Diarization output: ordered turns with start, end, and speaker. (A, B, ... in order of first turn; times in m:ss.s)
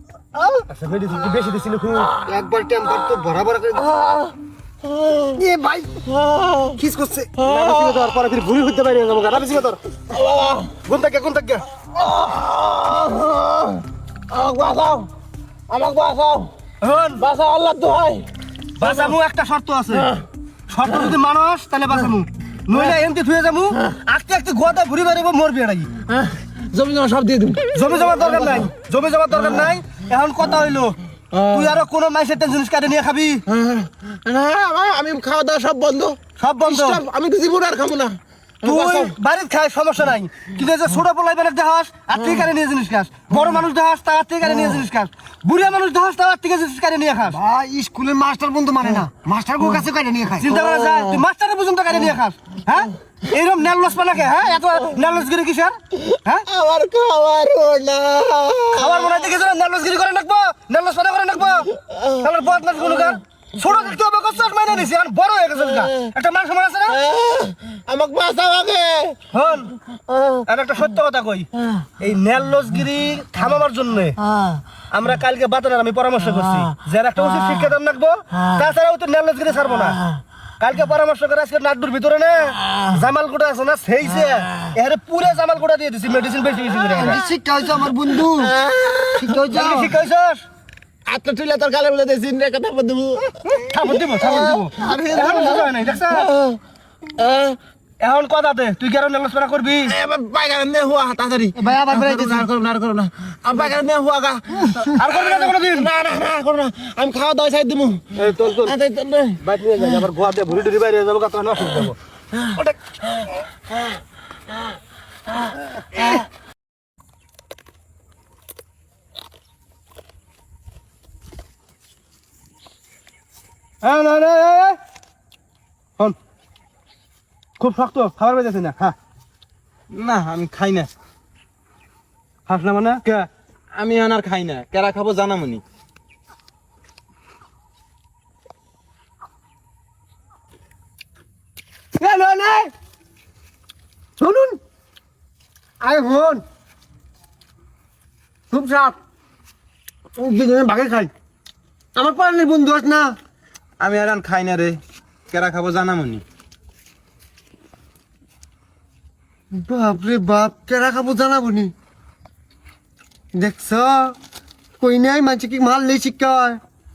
0:00.3-0:00.6 A
0:00.7-0:02.1 B
0:02.2-0:03.9 A
0:04.0-0:04.3 C
0:05.0-0:05.4 C
0:05.3-0:05.9 A
0:06.1-0:06.8 C
0:06.8-0:07.3 A
0:07.4-0:09.8 B
0:07.6-0:08.0 C
0:10.1-0:10.7 C
0:10.8-0:11.6 B
0:12.0-0:15.1 C
0:15.7-0:16.5 C
0:16.8-0:17.2 B
0:17.2-0:18.3 C
0:18.8-0:20.1 B
0:18.8-0:19.1 C
0:20.7-0:25.9 B
0:26.1-0:28.6 C
0:27.7-0:31.0 B
0:31.3-0:31.7 C
0:31.5-0:33.4 B
0:33.5-0:39.2 C
0:36.4-0:37.0 B
0:38.6-0:47.4 B
0:47.3-0:50.6 A
0:50.4-0:56.4 B
0:56.0-0:59.1 C
0:58.7-1:07.0 B
1:06.9-1:09.2 C
1:09.3-1:09.7 B
1:10.4-1:11.5 B
1:12.0-1:14.2 B
1:14.9-1:20.0 B
1:20.6-1:27.2 B
1:26.9-1:28.5 A
1:28.2-1:29.3 C
1:29.2-1:30.0 A
1:29.5-1:30.4 B
1:31.1-1:33.4 C
1:33.6-1:36.3 B
1:34.2-1:35.3 A
1:34.7-1:36.6 C
1:37.2-1:37.6 C
1:38.0-1:39.9 B
1:39.8-1:50.0 C
1:41.6-1:42.5 A
1:44.8-1:45.9 B
1:48.2-1:48.8 B
1:49.4-1:52.0 B
2:03.8-2:04.8 B
2:07.6-2:08.9 B
2:09.9-2:10.9 C
2:12.5-2:13.3 B
2:13.8-2:15.6 C
2:22.0-2:22.7 A
2:24.2-2:24.6 A
2:25.8-2:26.4 A
2:28.5-2:29.0 A
2:30.2-2:31.1 A
2:32.0-2:33.1 A
2:33.8-2:34.8 C
2:35.3-2:36.2 C
2:39.6-2:41.7 A
2:43.4-2:44.1 A
2:44.8-2:46.6 A